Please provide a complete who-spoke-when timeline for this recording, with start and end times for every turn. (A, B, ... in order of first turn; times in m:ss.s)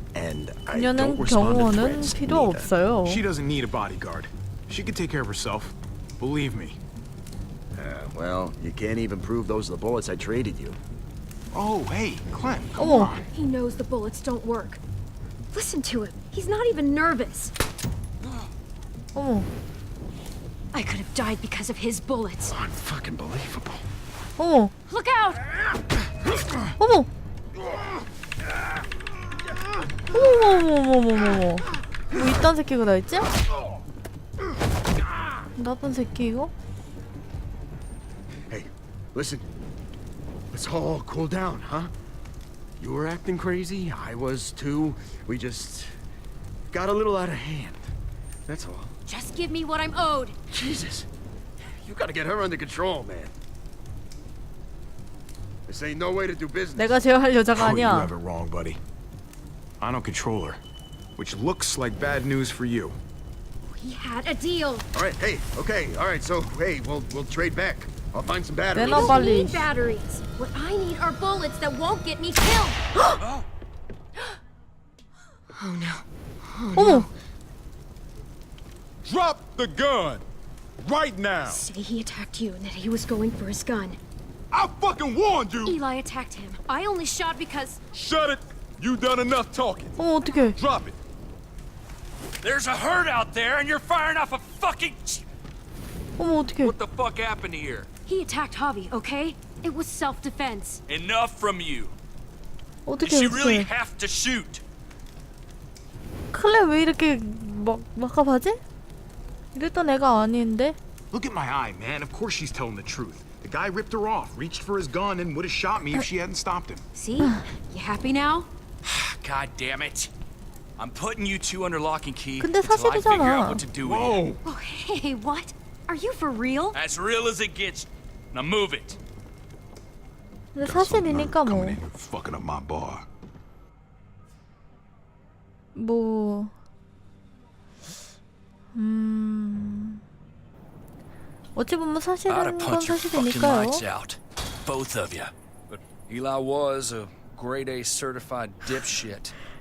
0:00.1-0:02.7 A
0:00.7-0:03.2 B
0:03.0-0:06.8 C
0:07.7-0:10.8 A
0:11.5-0:13.2 C
0:12.8-0:13.1 B
0:12.8-0:14.8 D
0:15.5-0:17.5 D
0:19.1-0:19.5 B
0:20.7-0:22.5 D
0:22.5-0:23.8 A
0:24.4-0:24.7 B
0:24.9-0:25.4 D
0:26.8-0:27.1 B
0:30.1-0:33.3 B
0:35.6-0:36.5 B
0:38.5-0:39.4 A
0:40.5-0:41.9 A
0:42.8-0:45.9 A
0:46.7-0:47.9 A
0:48.5-0:48.9 A
0:49.1-0:50.4 D
0:50.5-0:51.1 A
0:51.8-0:53.3 A
0:55.7-0:57.0 A
0:56.8-0:58.1 B
0:57.5-0:58.8 C
0:59.8-1:00.6 C
1:01.2-1:03.0 C
1:03.7-1:04.8 D
1:04.9-1:09.1 A
1:08.7-1:09.7 B
1:08.8-1:13.1 D
1:15.5-1:17.1 D
1:16.7-1:17.1 B
1:19.0-1:20.2 E
1:20.8-1:21.6 E
1:21.4-1:24.0 D
1:24.5-1:25.8 E
1:25.6-1:27.8 D
1:27.9-1:30.0 E
1:30.0-1:30.6 B
1:30.5-1:31.0 E
1:32.4-1:35.2 F
1:36.2-1:36.7 B
1:36.6-1:37.9 F
1:38.0-1:40.8 D
1:40.9-1:41.9 F
1:42.8-1:43.7 B
1:43.0-1:44.6 F
1:46.3-1:48.6 B
1:49.5-1:50.8 B
1:51.1-1:56.8 C
1:56.9-1:58.5 D
1:58.8-2:00.1 F
2:00.8-2:04.2 F
2:02.4-2:03.6 B
2:03.8-2:04.4 C
2:04.4-2:06.8 D
2:06.7-2:09.0 F
2:10.5-2:11.8 B
2:10.6-2:13.0 E
2:15.7-2:16.5 B
2:18.7-2:20.0 B
2:21.6-2:23.8 B
2:22.3-2:29.3 F